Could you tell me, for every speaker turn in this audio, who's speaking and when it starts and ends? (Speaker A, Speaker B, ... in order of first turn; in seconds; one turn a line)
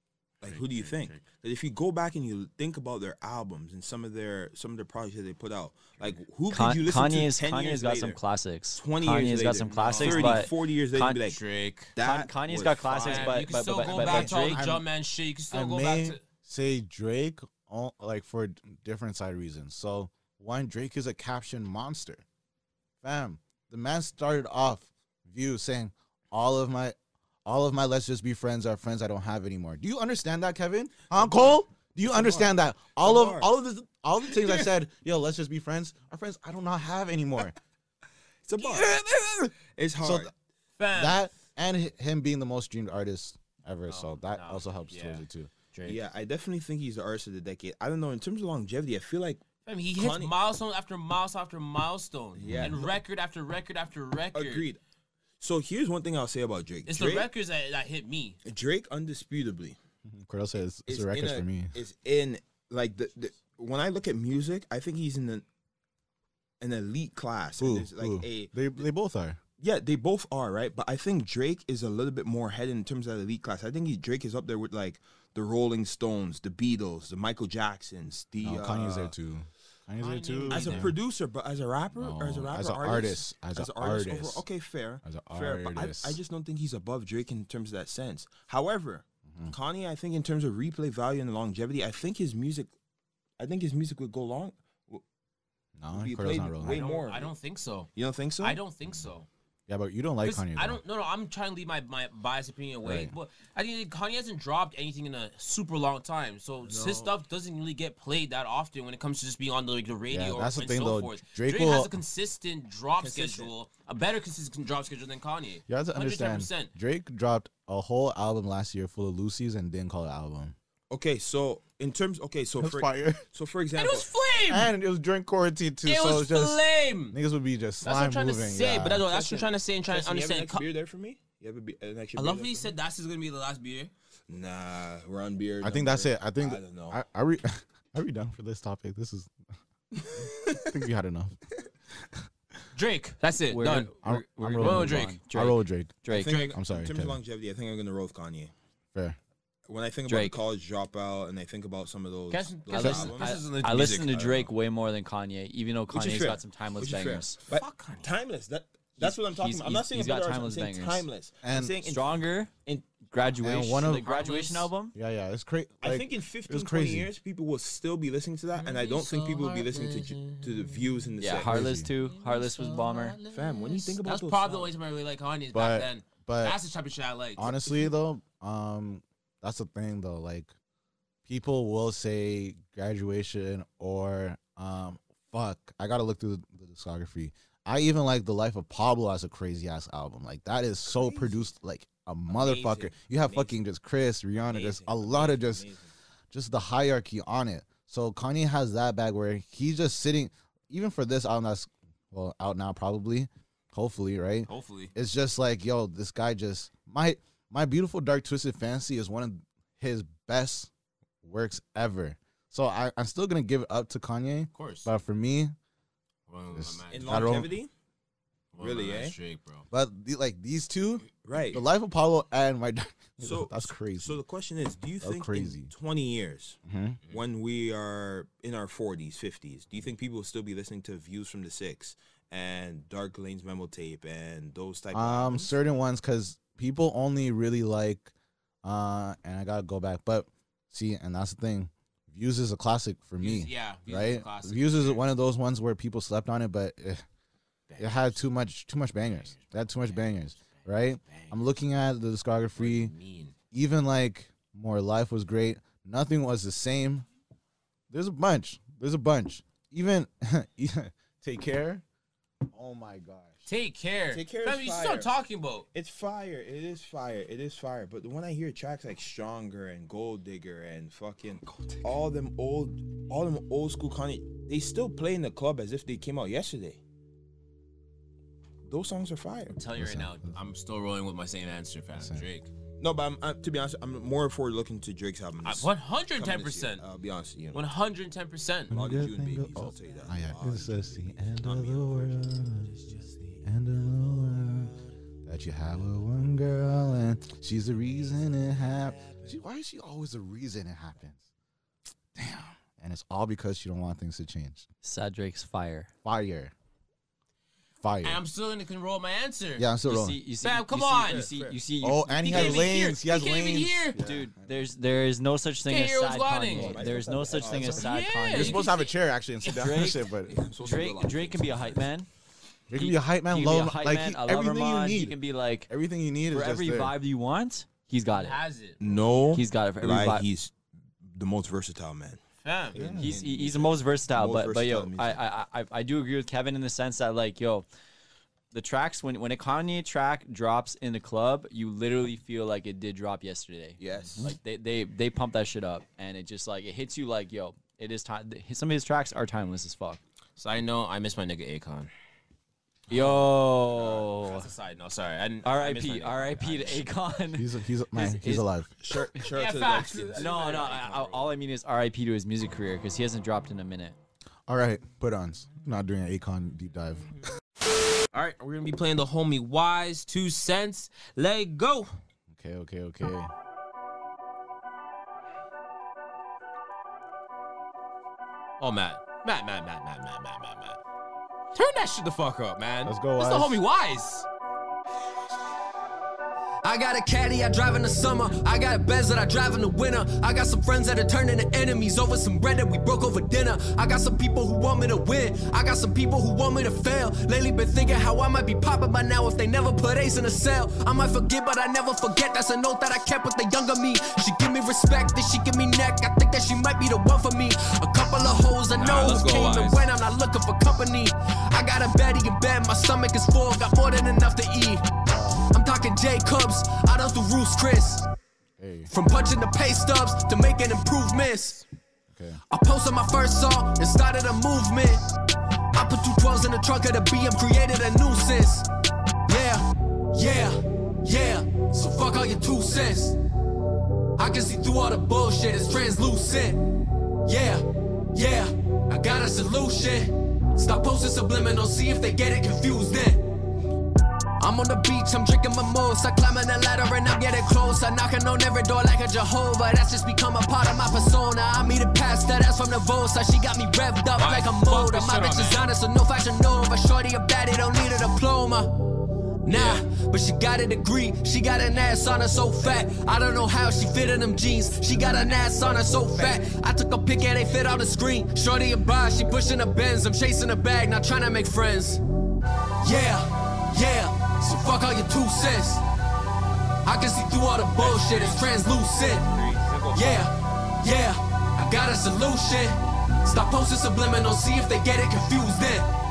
Speaker A: 0.4-8.2
Speaker B: 0.4-1.3
Speaker C: 6.5-11.2
Speaker A: 8.7-11.4
Speaker B: 9.7-10.5
Speaker B: 11.2-11.9
Speaker A: 12.0-13.8
Speaker C: 12.0-14.7
Speaker B: 13.0-16.2
Speaker D: 13.9-14.9
Speaker D: 15.5-22.2
Speaker D: 23.0-37.6
Speaker A: 31.1-33.5
Speaker B: 34.3-34.7
Speaker A: 38.4-39.0
Speaker D: 38.6-40.3
Speaker A: 39.7-40.3
Speaker B: 40.8-41.2
Speaker D: 40.9-45.5
Speaker B: 43.9-46.0
Speaker A: 45.9-50.4
Speaker B: 49.7-54.7
Speaker D: 52.4-52.8
Speaker A: 52.4-53.0
Speaker A: 54.3-54.8
Speaker A: 55.4-57.3
Speaker B: 56.9-58.4
Speaker A: 58.5-59.8
Speaker D: 60.1-61.8
Speaker A: 60.9-65.5
Speaker A: 66.6-68.8
Speaker D: 67.6-69.4
Speaker A: 69.6-79.2
Speaker D: 78.4-81.0
Speaker B: 80.0-80.9
Speaker A: 80.5-92.7
Speaker D: 82.0-84.4
Speaker D: 85.0-86.2
Speaker A: 93.4-95.0
Speaker D: 95.8-96.8
Speaker A: 95.9-97.3
Speaker B: 96.6-99.3
Speaker A: 98.0-98.6
Speaker D: 99.7-100.8
Speaker B: 100.2-116.7
Speaker D: 102.8-103.1
Speaker D: 106.7-107.1
Speaker D: 110.1-112.0
Speaker A: 113.0-113.5
Speaker D: 115.7-120.5
Speaker A: 120.9-124.1
Speaker D: 122.6-123.2
Speaker B: 123.8-124.7
Speaker D: 124.5-129.1
Speaker B: 125.8-127.2
Speaker B: 127.8-130.7
Speaker A: 129.0-132.7
Speaker B: 132.2-133.9
Speaker A: 134.3-137.0
Speaker D: 135.6-139.3
Speaker A: 140.0-140.6
Speaker D: 140.6-141.4
Speaker B: 142.8-143.9
Speaker C: 143.5-146.5
Speaker D: 144.0-147.2
Speaker B: 144.6-145.2
Speaker A: 146.1-148.5
Speaker B: 146.1-146.6
Speaker A: 149.7-153.5
Speaker C: 150.1-150.4
Speaker B: 152.3-154.5
Speaker C: 152.7-157.4
Speaker A: 155.9-162.9
Speaker B: 157.5-158.1
Speaker C: 159.0-161.1
Speaker D: 161.4-161.8
Speaker C: 161.7-165.0
Speaker D: 163.4-164.2
Speaker B: 164.0-164.7
Speaker D: 164.9-167.1
Speaker A: 165.8-171.6
Speaker B: 168.6-171.1
Speaker C: 171.2-173.2
Speaker D: 171.4-171.9
Speaker B: 172.0-177.6
Speaker A: 173.3-174.7
Speaker D: 175.5-176.6
Speaker D: 177.4-180.5
Speaker D: 181.3-195.7
Speaker A: 190.9-191.5
Speaker A: 192.3-193.6
Speaker A: 194.5-195.9
Speaker D: 196.3-210.7
Speaker B: 204.5-204.9
Speaker D: 211.2-215.5
Speaker B: 214.5-214.9
Speaker B: 216.3-217.5
Speaker D: 216.5-217.5
Speaker A: 216.9-217.7
Speaker B: 218.6-219.7
Speaker A: 218.6-219.2
Speaker D: 219.7-224.2
Speaker A: 221.2-221.7
Speaker A: 223.2-235.6
Speaker D: 225.0-225.7
Speaker D: 226.7-227.0
Speaker D: 234.9-238.1
Speaker D: 238.6-247.0
Speaker B: 243.2-245.1
Speaker B: 247.7-248.2
Speaker D: 247.8-252.9
Speaker B: 249.0-251.4
Speaker B: 252.6-253.3
Speaker D: 253.5-257.1
Speaker D: 257.9-261.8
Speaker D: 262.5-263.5
Speaker B: 263.5-265.7
Speaker A: 264.1-265.1
Speaker A: 265.7-276.8
Speaker A: 278.7-279.6
Speaker B: 279.5-282.5
Speaker D: 279.7-280.4
Speaker D: 282.0-282.3
Speaker A: 282.8-287.6
Speaker B: 285.4-286.8
Speaker B: 287.5-288.7
Speaker D: 288.7-301.2
Speaker A: 288.7-292.3
Speaker D: 302.1-304.7
Speaker C: 304.8-305.9
Speaker D: 306.0-306.5
Speaker D: 307.8-308.2
Speaker B: 308.0-309.7
Speaker D: 309.6-310.2
Speaker C: 309.9-312.7
Speaker B: 310.4-311.3
Speaker A: 311.1-311.6
Speaker D: 311.8-314.6
Speaker B: 312.2-314.0
Speaker C: 314.0-318.7
Speaker B: 315.7-318.9
Speaker A: 316.5-317.9
Speaker D: 318.3-320.4
Speaker B: 319.5-319.9
Speaker C: 319.5-320.0
Speaker A: 320.3-321.9
Speaker C: 320.6-322.1
Speaker D: 322.7-325.2
Speaker C: 322.7-325.7
Speaker D: 325.7-326.9
Speaker C: 326.3-328.4
Speaker B: 328.1-328.9
Speaker A: 328.8-332.2
Speaker C: 329.3-330.3
Speaker B: 332.4-332.8
Speaker A: 332.7-335.2
Speaker D: 332.8-333.2
Speaker C: 332.9-337.7
Speaker C: 338.5-350.0
Speaker A: 343.8-344.3
Speaker B: 350.4-351.9
Speaker C: 352.9-354.5
Speaker B: 353.7-357.0
Speaker C: 355.4-358.5
Speaker D: 357.4-358.7
Speaker A: 358.8-360.9
Speaker B: 359.2-361.3
Speaker C: 360.1-364.0
Speaker D: 364.5-367.1
Speaker B: 368.1-371.9
Speaker D: 372.3-373.3
Speaker B: 378.6-380.8
Speaker B: 381.5-384.3
Speaker D: 382.9-383.6
Speaker E: 386.6-414.9
Speaker B: 408.7-409.9
Speaker D: 415.1-415.4
Speaker E: 415.5-418.1
Speaker D: 418.6-418.9
Speaker E: 418.9-421.6
Speaker D: 422.1-422.4
Speaker E: 422.5-425.1
Speaker E: 425.8-428.7
Speaker E: 429.3-433.2
Speaker E: 434.2-436.6
Speaker E: 437.2-443.2
Speaker E: 444.4-458.7
Speaker B: 454.2-455.7
Speaker E: 459.5-472.0
Speaker B: 459.5-459.8
Speaker E: 472.8-475.8
Speaker E: 476.9-479.3
Speaker B: 477.8-478.5
Speaker A: 477.8-478.4
Speaker A: 479.1-480.1
Speaker E: 479.9-485.9